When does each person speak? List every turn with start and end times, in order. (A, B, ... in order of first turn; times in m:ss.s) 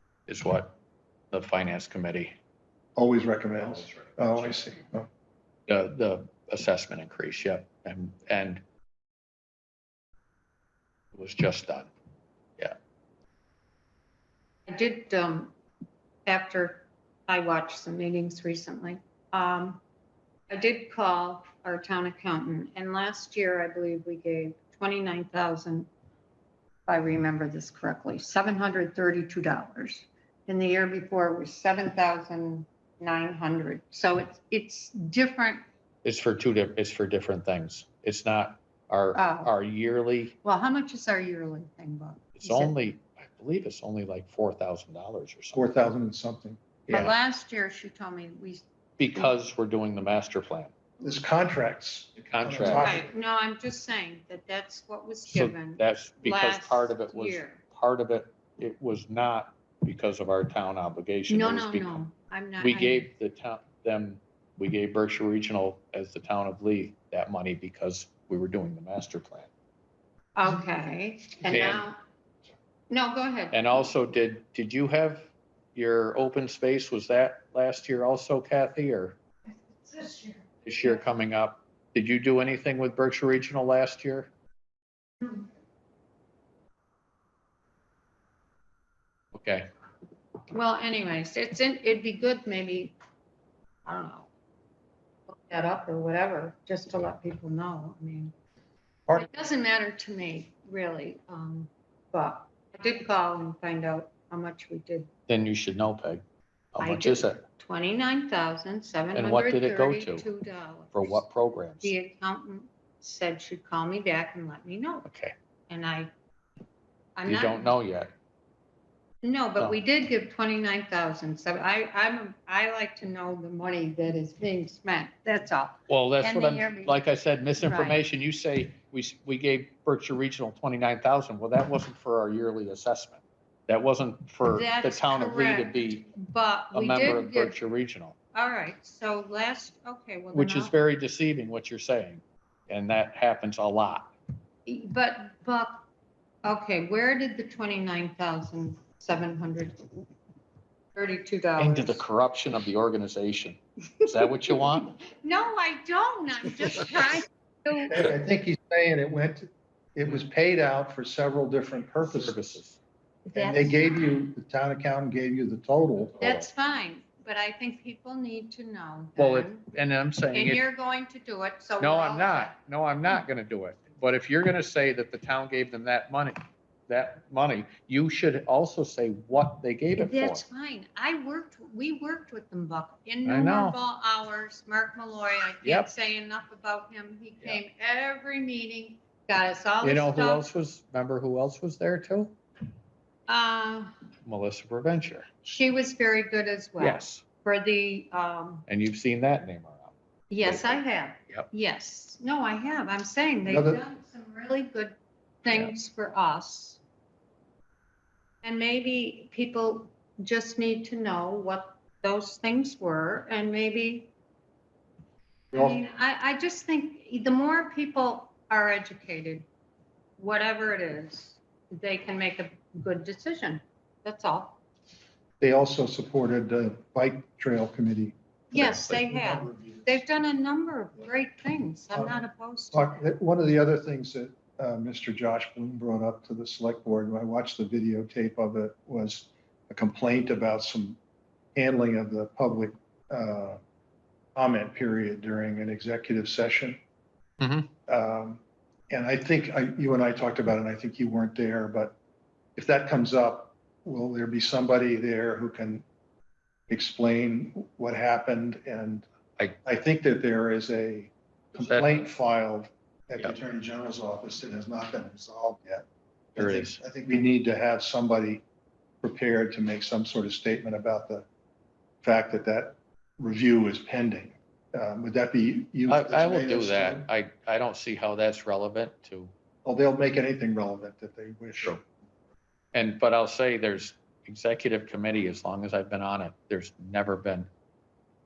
0:00.3-0:00.8 A
0:01.3-0:02.3 A
0:03.0-0:05.1 B
0:03.6-0:04.7 A
0:05.7-0:08.6 A
0:11.1-0:11.9 A
0:14.7-0:15.6 C
0:16.3-0:19.8 C
0:20.5-0:25.9 C
0:26.9-0:35.6 C
0:36.0-0:40.4 A
0:39.1-0:39.5 C
0:40.4-0:42.8 C
0:42.4-0:45.7 A
0:45.5-0:46.9 B
0:46.9-0:47.1 A
0:46.9-0:49.3 C
0:49.0-0:50.7 A
0:51.0-0:53.1 B
0:52.2-0:53.0 A
0:52.7-0:57.6 C
0:55.3-1:02.0 A
1:01.3-1:03.1 C
1:02.6-1:09.5 A
1:10.4-1:12.0 C
1:11.4-1:11.9 A
1:12.9-1:13.8 C
1:13.5-1:19.2 A
1:19.8-1:20.4 C
1:20.6-1:24.3 A
1:29.3-1:29.7 A
1:30.5-1:33.0 C
1:33.8-1:34.3 C
1:35.3-1:38.3 C
1:39.1-1:45.1 C
1:45.3-1:46.2 A
1:46.8-1:47.4 A
1:46.8-1:51.2 C
1:49.1-1:50.3 A
1:50.9-1:51.9 A
1:51.8-1:55.1 C
1:55.0-1:55.4 A
1:55.7-1:56.1 C
1:57.2-1:57.8 C
1:57.3-1:58.1 A
1:59.2-2:07.0 C
2:05.9-2:16.0 A
2:07.6-2:08.0 C
2:14.4-2:17.6 C
2:16.7-2:18.2 A
2:18.3-2:20.8 C
2:20.3-2:24.1 A
2:24.7-2:25.8 C
2:26.4-2:30.0 C
2:31.0-2:32.0 C
2:31.6-2:35.0 A
2:35.1-2:37.9 C
2:37.9-2:42.6 B
2:42.0-2:42.8 A
2:43.3-2:44.2 C
2:43.3-2:46.2 B
2:46.2-2:46.5 A
2:46.2-2:49.6 C
2:49.2-2:50.6 A
2:50.3-2:52.6 C
2:51.8-3:00.4 A
3:00.0-3:10.5 C
3:03.2-3:03.8 A
3:05.6-3:05.9 A
3:09.8-3:12.4 A
3:13.3-3:13.9 C
3:14.2-3:15.3 A
3:15.4-3:18.7 C
3:16.8-3:17.2 A
3:18.7-3:21.5 A
3:20.3-3:26.8 C
3:23.5-3:23.8 B
3:28.4-3:34.1 C
3:35.5-3:39.5 C
3:40.2-3:44.6 C
3:45.4-3:50.0 B
3:48.5-3:53.0 C
3:51.9-3:52.2 B
3:52.7-4:01.0 B
4:01.6-4:03.6 B
4:04.4-4:06.8 B
4:07.4-4:07.7 A
4:07.9-4:12.0 B
4:12.6-4:15.8 B
4:16.7-4:19.1 B
4:19.6-4:25.8 B
4:21.6-4:22.1 A
4:26.4-4:26.8 A
4:26.4-4:28.4 B
4:29.0-4:31.3 B
4:32.0-4:37.1 B
4:35.9-4:39.3 A
4:39.6-4:41.8 B
4:42.7-4:47.5 A